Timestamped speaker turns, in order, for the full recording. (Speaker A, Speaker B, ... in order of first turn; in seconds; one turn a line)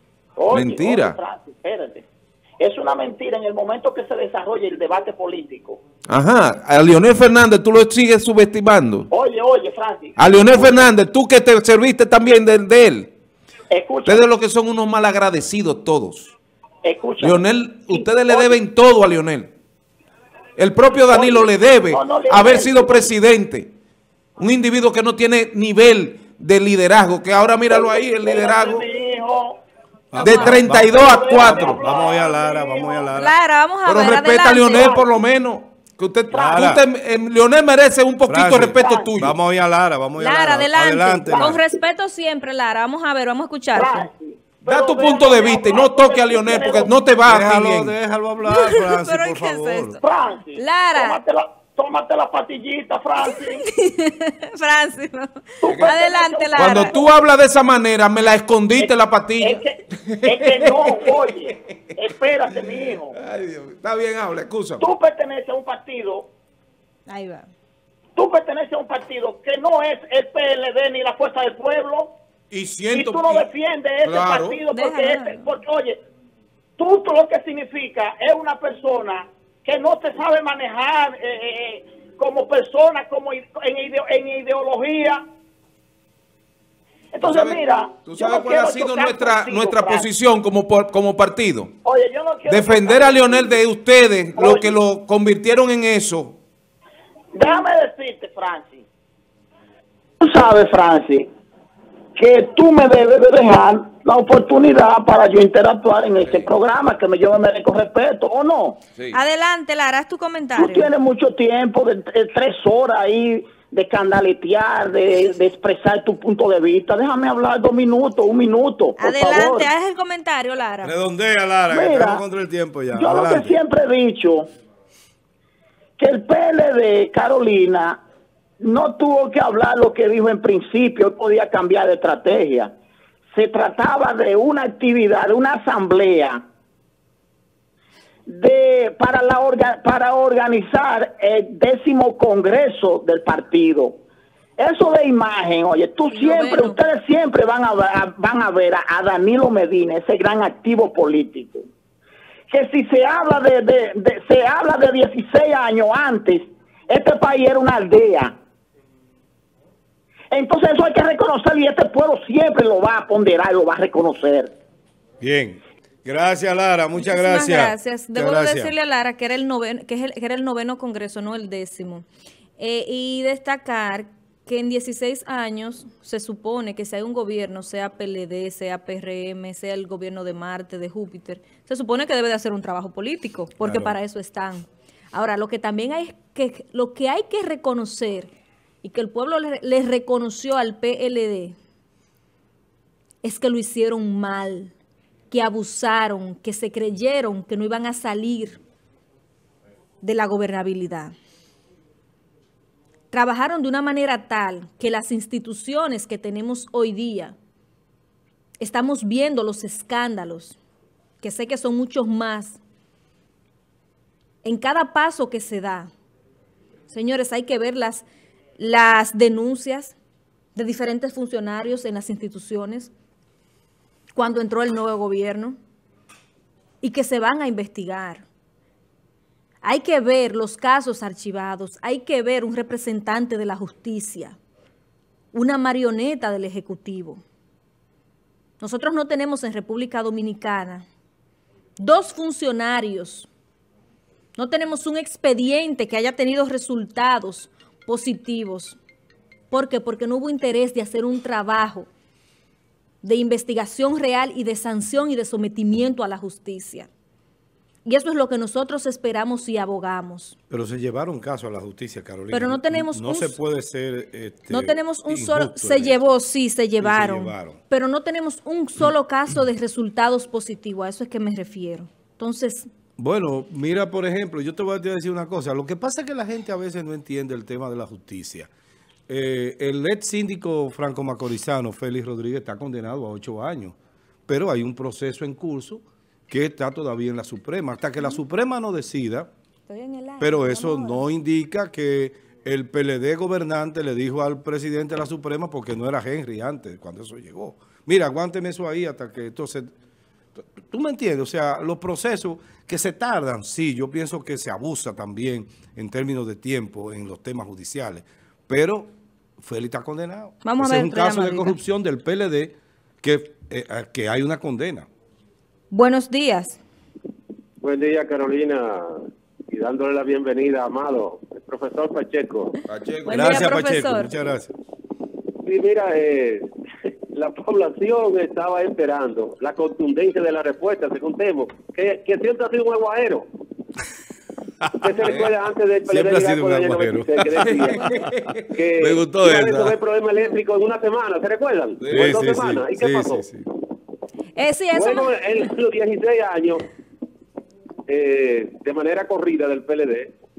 Speaker A: 0.4-2.0
Speaker B: 0.5-1.2
Speaker A: 2.6-5.8
Speaker B: 6.0-9.1
Speaker A: 9.1-10.9
Speaker B: 10.2-13.1
Speaker A: 13.7-14.2
Speaker B: 14.0-16.3
Speaker A: 16.8-18.6
Speaker B: 17.2-19.5
Speaker B: 20.6-23.7
Speaker A: 21.1-23.1
Speaker B: 24.4-28.9
Speaker A: 27.7-29.6
Speaker C: 30.1-33.3
Speaker B: 30.2-31.9
Speaker D: 30.2-30.5
Speaker A: 30.2-33.1
Speaker D: 33.1-35.0
Speaker B: 33.9-39.4
Speaker A: 34.7-35.0
Speaker A: 36.3-36.7
Speaker C: 36.3-36.8
Speaker C: 38.2-41.6
Speaker A: 38.7-39.1
Speaker D: 40.2-44.1
Speaker A: 41.3-41.6
Speaker A: 43.7-46.9
Speaker B: 44.6-47.9
Speaker C: 47.2-50.0
Speaker D: 48.5-50.0
Speaker A: 50.0-53.6
Speaker D: 50.6-51.2
Speaker D: 53.5-57.0
Speaker A: 55.6-57.1
Speaker B: 56.5-61.5
Speaker A: 58.8-63.1
Speaker B: 62.5-64.9
Speaker A: 64.8-66.3
Speaker D: 67.1-67.5
Speaker A: 68.2-72.1
Speaker B: 72.5-73.5
Speaker A: 72.9-76.0
Speaker B: 74.0-74.6
Speaker D: 74.7-75.5
Speaker A: 76.8-85.2
Speaker A: 87.1-90.1
Speaker B: 87.2-91.7
Speaker A: 91.8-93.6
Speaker B: 92.5-96.4
Speaker A: 94.4-94.8
Speaker A: 97.3-98.8
Speaker A: 100.2-101.3
Speaker A: 102.2-108.8
Speaker D: 109.1-110.9
Speaker A: 110.5-119.7
Speaker D: 119.0-120.9
Speaker C: 120.8-123.6
Speaker A: 121.7-122.2
Speaker A: 122.9-124.5
Speaker A: 126.0-128.0
Speaker A: 128.6-132.7
Speaker A: 133.3-136.4
Speaker A: 138.3-144.0
Speaker A: 144.6-151.6
Speaker D: 146.1-146.8
Speaker A: 152.5-158.3
Speaker A: 160.3-164.5
Speaker C: 165.2-168.7
Speaker D: 166.9-172.1
Speaker D: 172.6-188.3
Speaker C: 183.6-183.9
Speaker D: 188.8-191.6
Speaker D: 193.2-194.7
Speaker D: 195.3-198.6
Speaker D: 200.0-201.1
Speaker D: 203.1-207.3
Speaker D: 208.6-210.6
Speaker D: 211.2-212.6
Speaker D: 214.4-215.9
Speaker D: 216.9-218.0
Speaker D: 218.6-219.9
Speaker D: 220.6-222.9
Speaker D: 224.1-225.6
Speaker D: 226.8-228.2
Speaker D: 229.6-234.4
Speaker D: 235.3-237.2
Speaker D: 238.6-240.8
Speaker D: 241.8-243.3
Speaker D: 244.3-248.8
Speaker D: 249.5-251.9
Speaker D: 253.0-256.9
Speaker D: 257.8-260.4
Speaker C: 260.5-266.0
Speaker D: 262.3-263.4
Speaker D: 264.5-272.7
Speaker C: 266.8-267.6
Speaker C: 273.0-278.5
Speaker C: 279.1-283.8
Speaker C: 284.3-289.3
Speaker D: 289.7-291.0
Speaker C: 290.2-299.7
Speaker C: 300.4-314.9
Speaker D: 310.4-311.6
Speaker D: 315.7-316.6
Speaker E: 317.6-322.5
Speaker B: 322.7-323.5
Speaker D: 323.1-324.1
Speaker C: 323.1-324.5
Speaker E: 325.4-326.4
Speaker E: 327.1-333.2
Speaker C: 334.6-334.9
Speaker E: 334.8-337.9
Speaker B: 335.0-335.3
Speaker C: 335.9-338.1
Speaker B: 337.6-338.1
Speaker E: 338.5-343.2
Speaker C: 338.8-339.8
Speaker B: 341.8-342.3
Speaker C: 341.9-343.4
Speaker D: 344.3-345.2
Speaker E: 344.7-346.6
Speaker E: 347.9-350.1